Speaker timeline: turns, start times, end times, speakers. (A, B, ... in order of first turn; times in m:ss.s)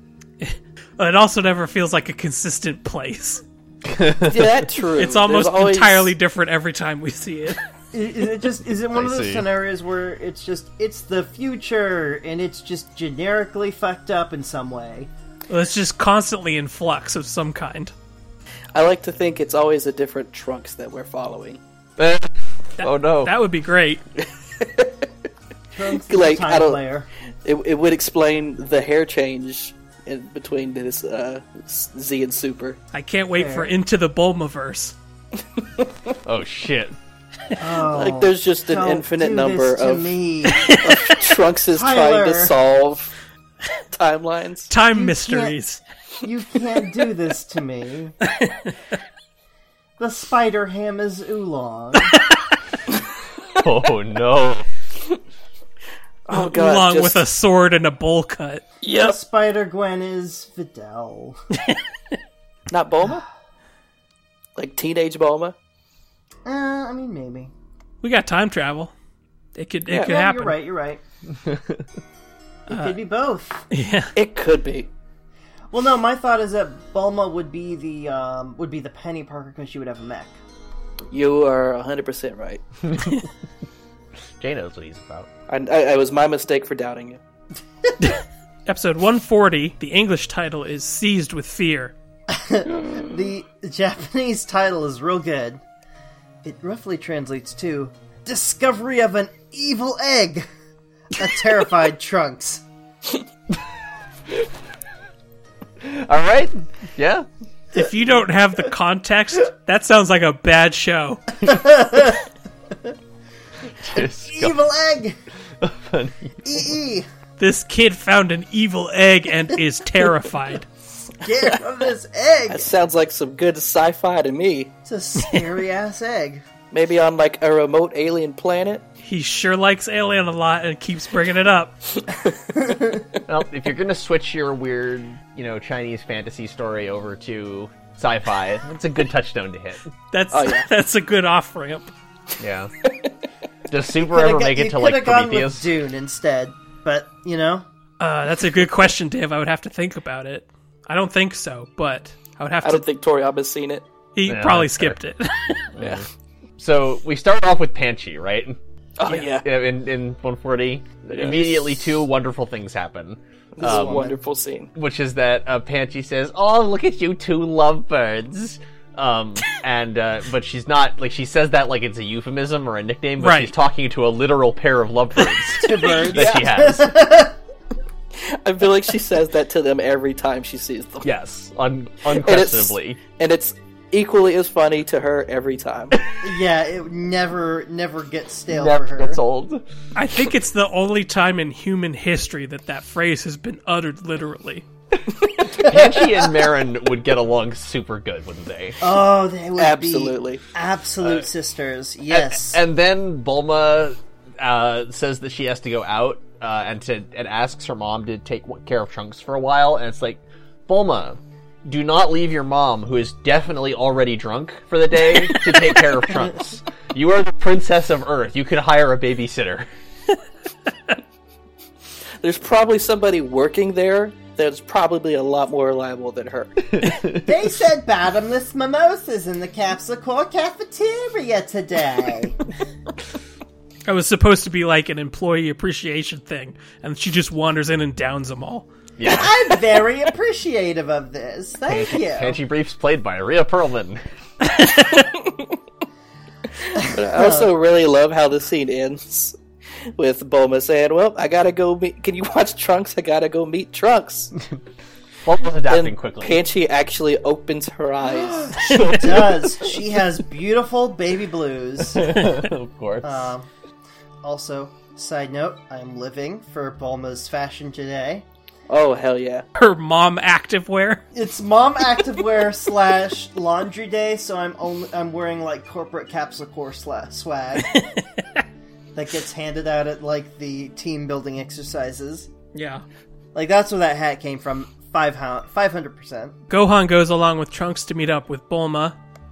0:00.4-0:03.4 A
0:03.8-0:04.6 B
0:04.3-0:06.1 C
0:05.0-0:07.6 A
0:07.9-0:15.1 D
0:08.9-0:09.5 B
0:15.5-0:17.9 A
0:18.7-0:21.6 C
0:22.0-0:23.3 B
0:22.8-0:24.0 A
0:24.2-0:25.0 C
0:25.7-0:27.1 D
0:25.9-0:26.8 C
0:27.4-0:32.8 C
0:32.9-0:35.0 A
0:33.4-0:33.7 D
0:35.6-0:35.9 C
0:36.2-0:37.0 B
0:37.6-0:40.8 D
0:37.8-0:43.1 C
0:40.5-0:40.8 A
0:41.7-0:42.5 D
0:43.9-0:44.7 C
0:44.7-0:45.8 A
0:44.9-0:45.6 D
0:46.2-0:48.2 D
0:48.3-0:48.7 A
0:50.0-0:52.2 D
0:53.6-0:54.6 B
0:56.2-0:57.2 C
0:56.3-0:58.6 A
0:58.8-0:59.2 C
0:58.9-1:01.4 D
1:02.7-1:03.2 C
1:04.6-1:05.5 C
1:06.4-1:07.5 D
1:08.0-1:08.9 A
1:09.5-1:10.6 A
1:09.9-1:11.0 D
1:11.4-1:11.8 B
1:12.7-1:13.6 D
1:12.7-1:13.0 A
1:13.7-1:14.1 A
1:14.2-1:14.9 C
1:15.7-1:20.4 D
1:21.1-1:22.6 C
1:22.9-1:23.2 B
1:24.4-1:25.3 B
1:25.5-1:27.2 C
1:28.0-1:31.9 A
1:32.3-1:35.6 D
1:36.4-1:40.4 D
1:41.1-1:42.6 D
1:45.8-1:47.2 B
1:47.7-1:51.2 A
1:51.4-1:52.2 D
1:53.8-1:54.6 B
1:53.9-1:55.2 D
1:55.6-1:56.8 B
1:56.4-1:57.0 D
1:57.4-2:00.6 A
2:01.2-2:02.7 D
2:02.5-2:04.7 C
2:04.8-2:06.4 D
2:06.7-2:08.8 C
2:09.0-2:11.7 A
2:12.1-2:12.4 C
2:12.6-2:13.0 D
2:13.3-2:19.9 B
2:20.1-2:21.9 A
2:20.3-2:20.7 C
2:22.4-2:22.7 B
2:22.8-2:23.1 C
2:23.7-2:25.7 B
2:24.0-2:27.6 D
2:28.0-2:32.8 A
2:32.6-2:33.8 C
2:34.1-2:35.7 A
2:34.2-2:35.0 B
2:35.7-2:36.0 B
2:35.8-2:36.0 C
2:36.6-2:44.1 B
2:39.0-2:39.4 C
2:41.1-2:41.8 C
2:43.6-2:44.7 C
2:43.6-2:44.2 D
2:44.7-2:56.9 B
2:53.2-2:53.5 A
2:55.6-2:57.4 D
2:55.8-2:56.5 C
2:58.1-3:01.1 C
3:01.0-3:03.0 B
3:02.1-3:06.0 C
3:06.2-3:09.2 D
3:08.5-3:09.6 B
3:09.9-3:14.6 A
3:15.5-3:18.8 B
3:15.6-3:16.3 D
3:18.8-3:22.6 D
3:19.6-3:20.4 C
3:22.1-3:39.7 B
3:42.2-3:46.6 C
3:46.7-3:47.3 B
3:47.2-3:52.4 D
3:53.8-3:58.7 A
3:59.0-3:59.5 B
3:59.0-4:02.4 D
4:01.7-4:04.0 B
4:04.5-4:04.9 A
4:04.9-4:05.5 C
4:06.7-4:09.4 C
4:06.8-4:07.5 D
4:10.0-4:14.3 C
4:15.2-4:16.4 B
4:15.7-4:18.9 C
4:18.6-4:19.4 B
4:18.6-4:22.3 D
4:21.8-4:23.3 B
4:23.0-4:23.5 D
4:24.2-4:28.2 D
4:28.7-4:29.4 C
4:29.5-4:31.0 A
4:31.1-4:37.8 D
4:37.7-4:38.4 A
4:38.9-4:42.3 D
4:42.5-4:42.8 A
4:43.3-4:46.4 D
4:46.5-4:49.0 A